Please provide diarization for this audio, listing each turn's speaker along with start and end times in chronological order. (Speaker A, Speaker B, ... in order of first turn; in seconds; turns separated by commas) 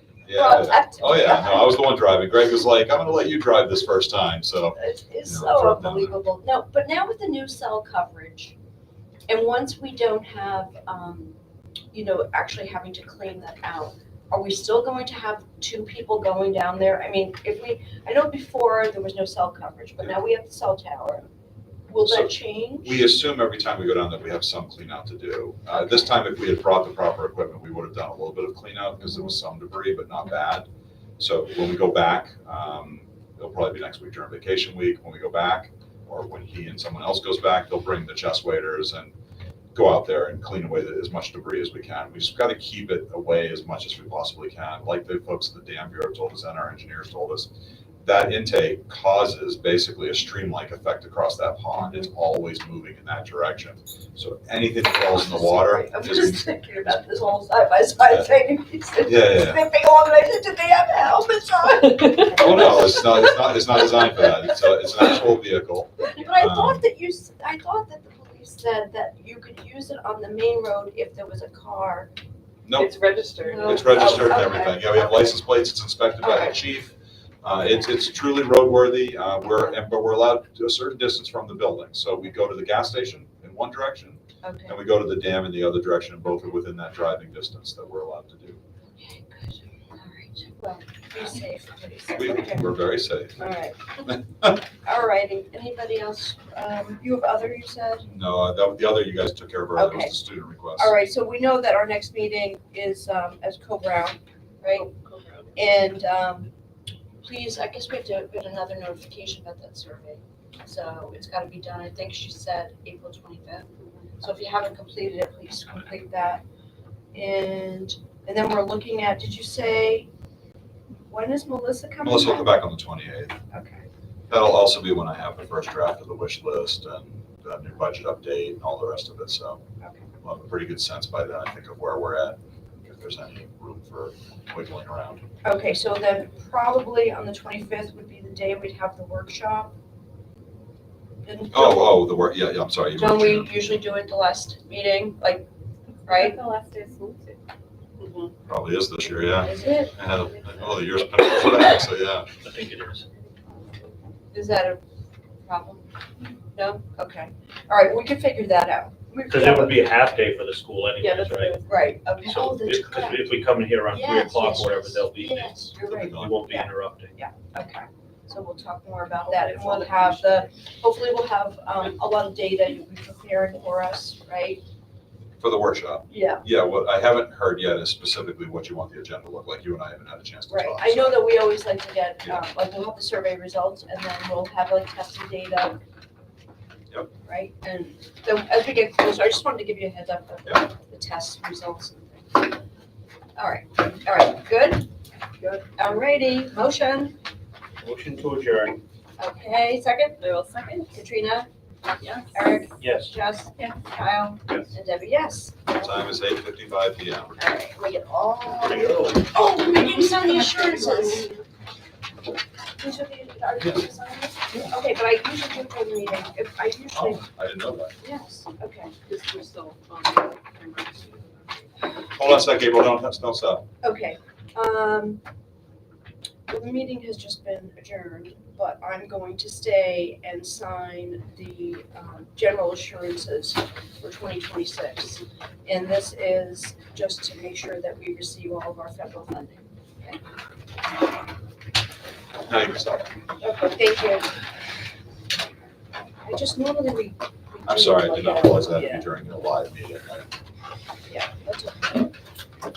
Speaker A: 0.2-6.2, Speaker B: 0.3-1.8, Speaker B: 4.8-8.6, Speaker B: 9.3-11.3, Speaker B: 11.9-21.3, Speaker B: 21.9-23.1, Speaker A: 22.1-30.7, Speaker B: 25.7-26.1, Speaker A: 31.2-39.1, Speaker A: 39.7-47.5, Speaker A: 48.0-56.5, Speaker B: 54.9-64.4, Speaker A: 58.0-58.3, Speaker A: 59.0-59.6, Speaker C: 62.0-62.8, Speaker A: 62.3-66.8, Speaker B: 66.1-72.1, Speaker A: 72.7-73.0, Speaker C: 72.7-74.0, Speaker B: 73.4-75.3, Speaker A: 73.6-88.6, Speaker B: 76.2-76.6, Speaker B: 84.4-84.8, Speaker B: 89.0-92.7, Speaker A: 92.2-93.5, Speaker B: 93.4-93.9, Speaker A: 94.0-94.6, Speaker B: 94.8-98.1, Speaker A: 98.1-101.0, Speaker B: 99.8-100.1, Speaker B: 100.8-104.9, Speaker C: 104.7-105.5, Speaker B: 105.5-106.5, Speaker B: 107.2-116.4, Speaker B: 117.1-120.1, Speaker B: 121.1-122.5, Speaker A: 122.0-123.3, Speaker B: 123.5-123.8, Speaker A: 124.3-129.6, Speaker B: 129.8-130.1, Speaker A: 130.2-135.2, Speaker B: 135.4-139.7, Speaker B: 141.2-142.1, Speaker A: 141.5-143.6, Speaker B: 143.0-145.5, Speaker C: 146.0-147.4, Speaker B: 146.1-146.4, Speaker B: 148.0-148.3, Speaker A: 148.5-152.3, Speaker B: 149.4-150.1, Speaker D: 152.4-153.1, Speaker C: 153.4-153.9, Speaker B: 154.3-154.8, Speaker B: 155.4-155.8, Speaker B: 156.5-159.8, Speaker D: 159.3-167.2, Speaker B: 161.0-163.3, Speaker C: 161.3-161.7, Speaker B: 163.9-174.6, Speaker A: 165.8-166.4, Speaker C: 169.3-170.4, Speaker A: 175.4-181.4, Speaker B: 176.1-176.4, Speaker B: 180.5-185.8, Speaker B: 187.2-192.5, Speaker B: 193.4-194.9, Speaker B: 195.6-197.2, Speaker D: 197.8-198.8, Speaker B: 199.2-200.2, Speaker C: 200.2-200.9, Speaker B: 200.9-201.5, Speaker C: 202.0-202.4, Speaker B: 202.3-206.2, Speaker D: 202.8-203.1, Speaker A: 205.8-207.4, Speaker B: 207.4-211.3, Speaker D: 208.6-209.3, Speaker C: 210.0-211.4, Speaker B: 212.8-217.2, Speaker A: 216.9-218.0, Speaker B: 218.0-218.9, Speaker C: 219.0-221.7, Speaker A: 222.1-223.7, Speaker B: 223.8-225.2, Speaker B: 226.5-240.2, Speaker A: 242.5-243.1, Speaker B: 243.4-244.3, Speaker B: 246.2-248.9, Speaker A: 247.7-250.3, Speaker B: 251.1-252.1